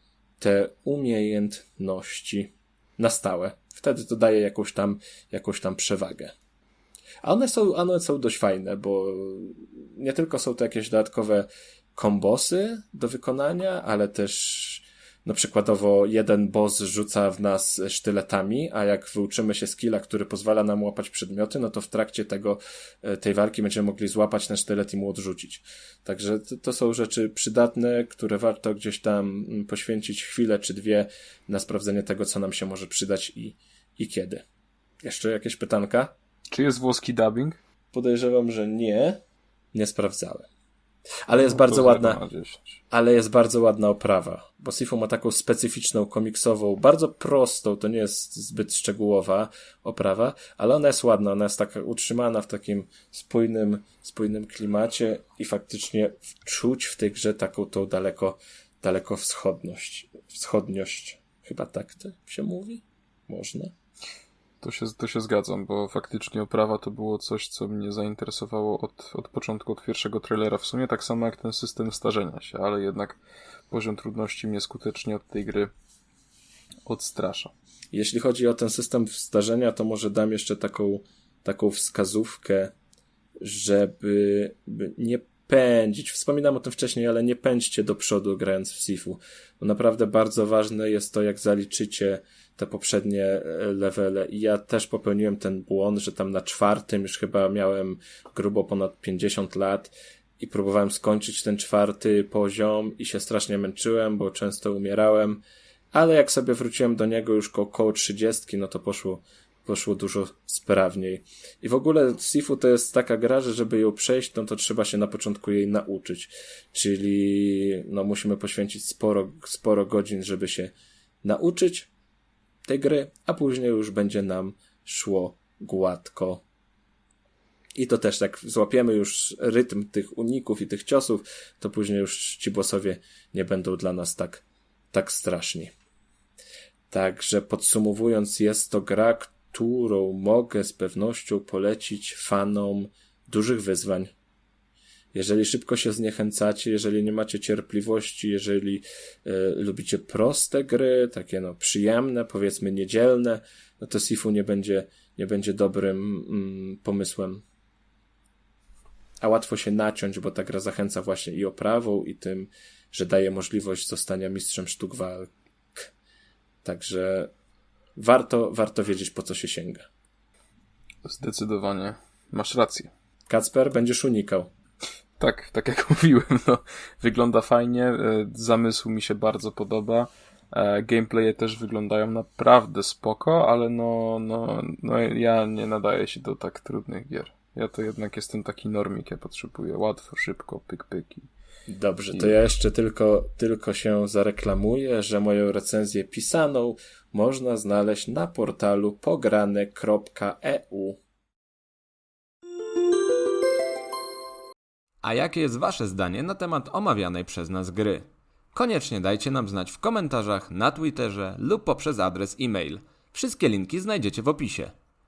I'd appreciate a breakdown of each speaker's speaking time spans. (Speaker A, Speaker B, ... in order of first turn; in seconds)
Speaker A: 0.4-6.3, 7.2-34.4, 35.0-36.1, 37.9-39.2, 39.7-40.5, 41.2-42.2, 42.9-63.7, 77.9-82.7, 83.4-105.4, 105.9-121.9, 122.6-126.4, 127.8-135.7, 136.9-144.1, 145.1-157.4, 159.2-165.3, 166.6-167.3, 167.9-169.8, 173.3-174.5, 191.7-201.0
Speaker B: 36.5-37.6, 41.4-42.8, 64.6-73.2, 73.7-75.7, 76.8-77.5, 171.0-172.9, 175.2-191.3
Speaker C: 205.0-214.7